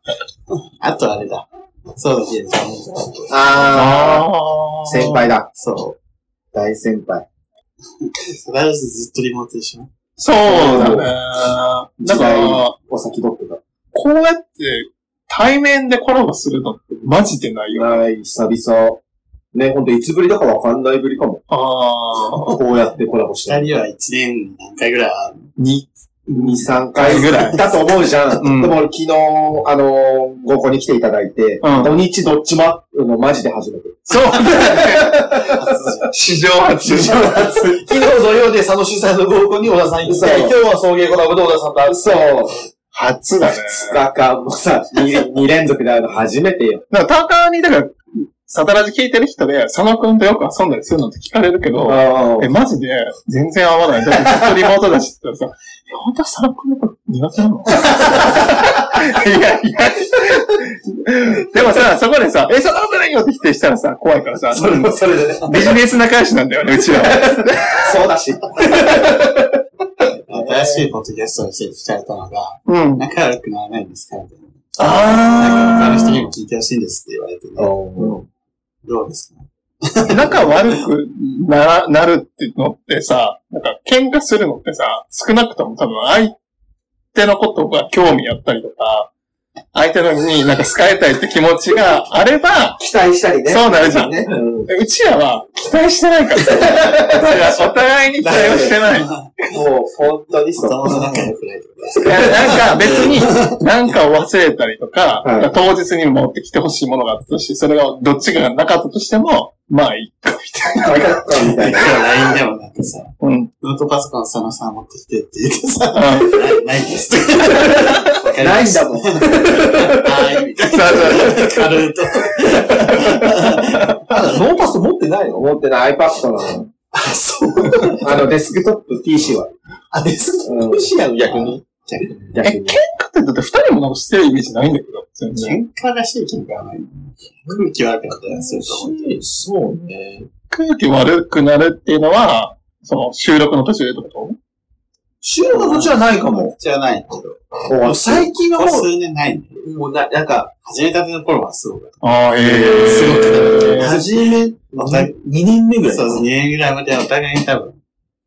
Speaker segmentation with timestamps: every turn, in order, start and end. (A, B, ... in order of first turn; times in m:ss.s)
0:00.8-0:03.7 A
0:03.3-0:04.3 B
0:03.6-0:05.3 C
0:04.8-0:05.5 B
0:05.5-0:06.0 A
0:06.5-0:07.2 B
0:08.0-0:09.9 A
0:10.2-0:12.7 C
0:10.4-0:11.1 B
0:12.0-0:13.6 B
0:13.9-0:18.1 C
0:17.7-0:19.0 B
0:19.5-0:21.4 B
0:21.5-0:22.6 C
0:22.4-0:23.7 B
0:23.4-0:25.5 A
0:25.6-0:27.7 C
0:26.3-0:35.7 B
0:28.4-0:28.8 C
0:31.6-0:32.0 C
0:34.1-0:35.3 C
0:34.3-0:36.2 A
0:36.1-0:37.7 C
0:36.8-0:42.2 D
0:37.1-0:37.8 A
0:40.0-0:40.6 B
0:41.8-0:42.6 B
0:42.9-0:44.0 C
0:43.4-0:46.8 B
0:46.9-1:07.4 C
0:51.8-0:52.5 B
1:04.6-1:05.7 B
1:06.9-1:09.6 B
1:10.1-1:17.8 A
1:10.3-1:10.9 B
1:12.7-1:13.0 C
1:14.8-1:16.3 C
1:17.6-1:18.2 B
1:18.8-1:20.8 A
1:20.1-1:26.4 C
1:27.1-1:29.1 C
1:29.7-1:32.8 C
1:32.8-1:34.7 B
1:33.5-1:39.2 C
1:36.5-1:38.8 B
1:38.5-1:39.4 A
1:39.5-1:41.0 B
1:40.5-1:43.6 A
1:42.0-1:51.2 C
1:45.2-1:45.5 B
1:50.8-1:52.1 B
1:51.4-2:04.4 A
1:53.2-1:53.5 C
1:55.9-1:56.5 C
1:58.4-2:00.4 B
2:00.6-2:01.9 C
2:02.7-2:03.1 B
2:04.1-2:05.5 D
2:05.4-2:06.7 B
2:06.9-2:08.2 A
2:08.0-2:09.5 B
2:09.9-2:11.6 D
2:10.4-2:10.9 B
2:11.3-2:12.3 A
2:12.3-2:12.8 B
2:12.4-2:15.6 C
2:15.3-2:19.2 A
2:18.3-2:20.3 D
2:20.5-2:24.4 C
2:25.2-2:26.5 D
2:25.5-2:27.4 A
2:27.7-2:28.3 B
2:27.8-2:28.9 D
2:28.5-2:29.6 A
2:29.6-2:30.5 D
2:30.6-2:32.0 A
2:32.0-2:33.9 C
2:32.4-2:36.3 D
2:32.6-2:35.1 A
2:35.8-2:37.8 A